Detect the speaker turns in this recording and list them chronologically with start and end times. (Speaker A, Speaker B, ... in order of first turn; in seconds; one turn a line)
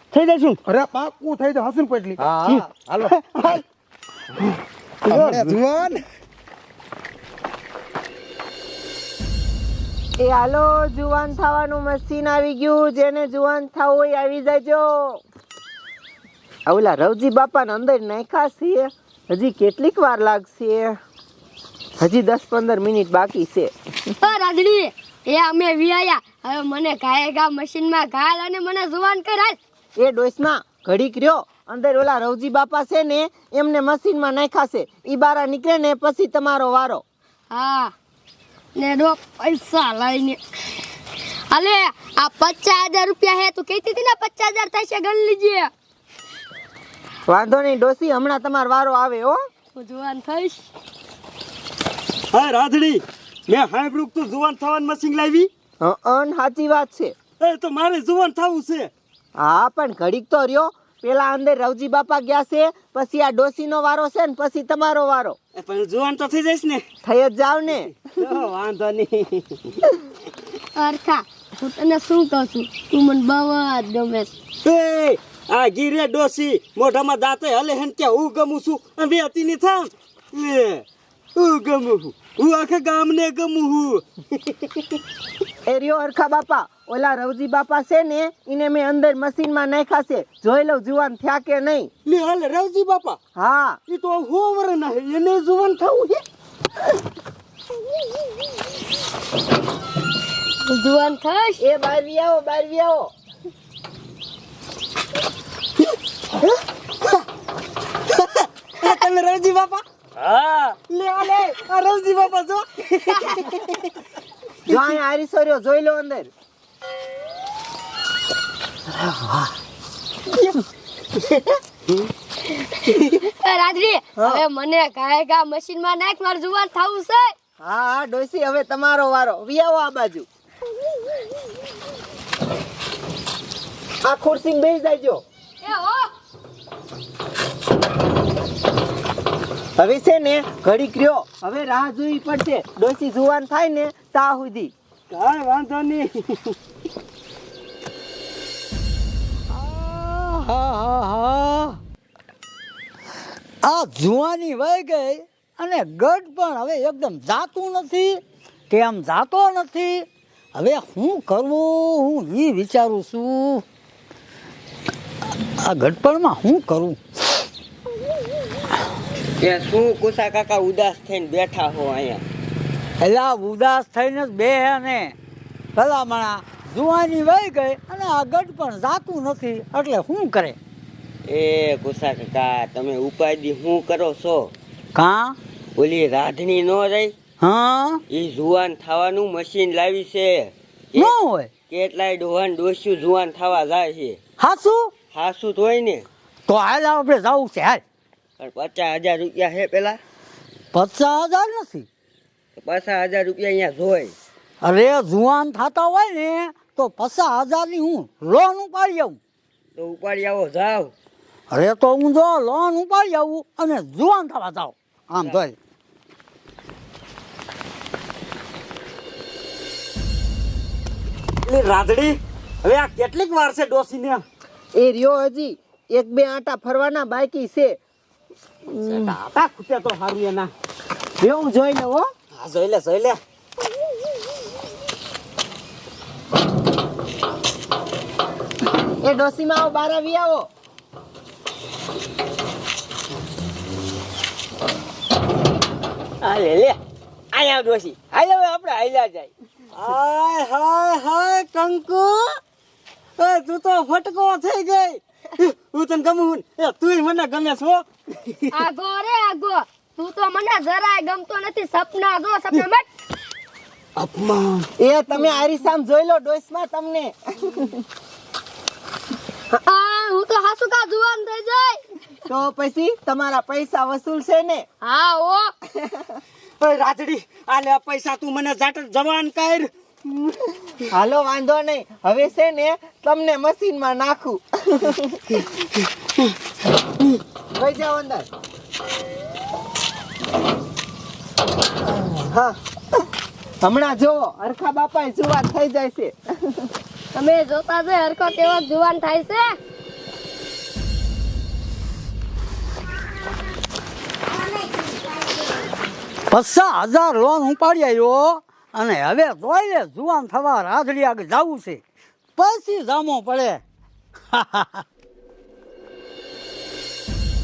Speaker A: 0.1-0.6
Speaker B: 0.7-3.6
Speaker A: 2.4-3.6
Speaker A: 5.0-5.6
Speaker B: 5.1-6.0
Speaker C: 10.2-15.2
Speaker C: 16.7-20.9
Speaker C: 22.0-23.7
Speaker D: 24.2-29.6
Speaker C: 30.0-37.0
Speaker D: 37.5-37.9
Speaker D: 38.8-40.4
Speaker D: 41.5-45.7
Speaker C: 47.3-49.4
Speaker D: 49.7-50.6
Speaker A: 52.3-55.5
Speaker C: 55.8-57.1
Speaker A: 57.4-58.9
Speaker C: 59.4-65.3
Speaker A: 65.6-66.8
Speaker C: 67.0-67.9
Speaker A: 68.2-69.5
Speaker D: 70.7-74.3
Speaker A: 74.6-80.8
Speaker A: 81.3-84.8
Speaker C: 85.7-91.9
Speaker A: 92.0-93.2
Speaker C: 93.3-93.8
Speaker A: 93.9-96.2
Speaker D: 100.7-101.6
Speaker C: 101.6-103.1
Speaker A: 108.1-109.8
Speaker E: 110.2-110.8
Speaker A: 110.9-113.7
Speaker C: 114.7-116.3
Speaker D: 122.9-127.3
Speaker C: 127.6-130.3
Speaker C: 134.0-135.2
Speaker D: 135.6-136.1
Speaker C: 139.8-144.7
Speaker A: 145.1-146.5
Speaker F: 149.5-151.8
Speaker F: 153.6-163.6
Speaker F: 165.6-167.0
Speaker E: 169.4-172.2
Speaker F: 173.0-175.1
Speaker F: 175.8-180.6
Speaker E: 181.3-184.5
Speaker F: 184.9-185.4
Speaker E: 185.8-187.1
Speaker F: 187.4-188.0
Speaker E: 188.1-191.1
Speaker F: 190.9-191.5
Speaker E: 191.7-194.2
Speaker F: 194.4-194.9
Speaker E: 195.1-196.1
Speaker F: 196.5-197.8
Speaker E: 198.4-200.0
Speaker F: 200.7-201.8
Speaker E: 202.6-204.1
Speaker F: 204.6-209.2
Speaker E: 209.8-210.9
Speaker F: 211.5-215.5
Speaker A: 221.4-224.2
Speaker C: 224.7-227.8
Speaker A: 228.7-230.5
Speaker C: 231.2-232.1
Speaker A: 232.3-233.2
Speaker C: 239.0-240.5
Speaker E: 246.2-246.7
Speaker E: 247.3-249.3
Speaker A: 249.8-252.3
Speaker A: 253.2-258.5
Speaker D: 258.5-262.9
Speaker A: 264.0-264.7
Speaker C: 264.8-267.7
Speaker D: 269.5-271.8
Speaker C: 272.3-274.6
Speaker D: 274.8-275.5
Speaker A: 276.6-280.2
Speaker C: 280.9-285.4
Speaker C: 287.6-288.3
Speaker C: 292.0-292.5
Speaker C: 293.6-296.7
Speaker D: 297.1-299.6
Speaker F: 306.3-311.8
Speaker F: 312.4-313.6
Speaker F: 314.3-314.8